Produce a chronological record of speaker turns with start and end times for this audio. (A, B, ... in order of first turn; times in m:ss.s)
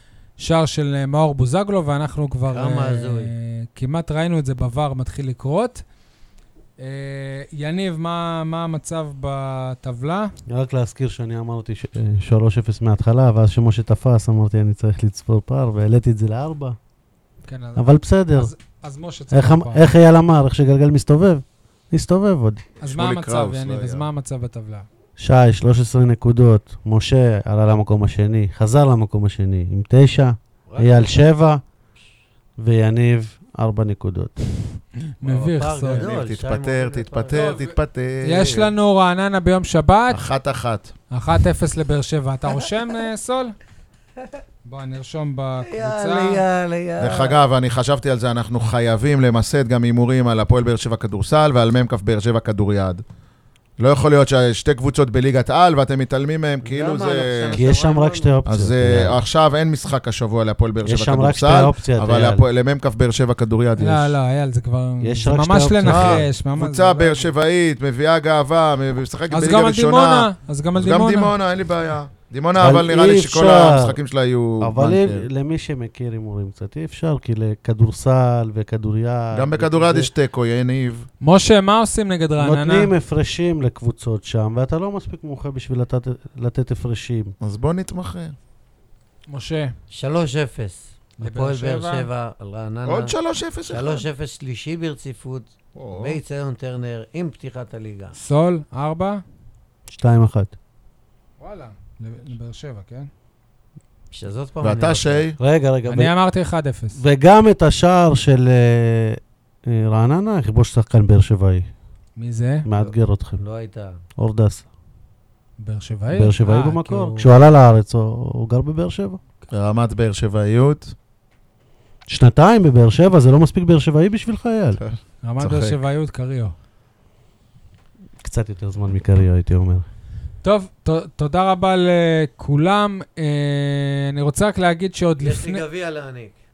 0:00.4-0:05.8 A
0:02.5-0:03.3 B
0:06.8-0:10.3 A
0:10.5-0:16.8 C
0:17.4-0:19.9 A
0:17.8-0:18.5 C
0:19.3-0:22.6 C
0:22.8-0:24.1 D
0:22.8-0:24.9 A
0:25.2-0:31.6 C
0:30.7-0:31.1 B
0:32.6-0:34.4 C
0:35.2-0:36.1 A
0:35.3-0:37.6 B
0:35.9-0:38.7 D
0:37.3-0:40.3 A
0:40.1-0:40.9 D
0:41.1-0:43.6 A
0:44.6-0:46.4 A
0:45.6-0:47.4 B
0:47.0-0:53.0 D
0:53.8-0:57.6 D
0:56.6-0:58.4 B
0:57.5-0:59.2 C
0:58.5-1:04.2 D
1:00.8-1:02.5 C
1:03.8-1:07.3 A
1:05.0-1:06.3 C
1:05.8-1:15.3 D
1:09.3-1:11.3 A
1:12.6-1:14.0 C
1:14.6-1:20.1 C
1:19.3-1:21.1 D
1:21.2-1:22.9 A
1:22.4-1:27.4 C
1:27.4-1:28.4 D
1:29.3-1:29.8 A
1:29.9-1:33.1 B
1:31.2-1:32.1 A
1:32.9-1:34.1 D
1:33.7-1:38.1 B
1:35.8-1:36.2 D
1:38.2-1:39.2 A
1:39.9-1:40.5 C
1:41.4-1:43.1 A
1:44.1-1:45.3 B
1:44.6-1:45.4 D
1:45.4-1:46.1 C
1:45.9-1:47.0 A
1:47.0-1:51.7 C
1:52.2-1:52.7 A
1:52.6-1:53.4 C
1:52.8-1:54.0 B
1:54.2-1:54.6 C
1:55.6-1:57.3 A
1:56.1-1:59.2 C
1:59.5-2:00.9 D
2:02.1-2:04.8 C
2:04.8-2:05.8 D
2:05.2-2:06.5 A
2:08.2-2:09.9 C
2:10.4-2:15.6 A
2:15.2-2:16.3 B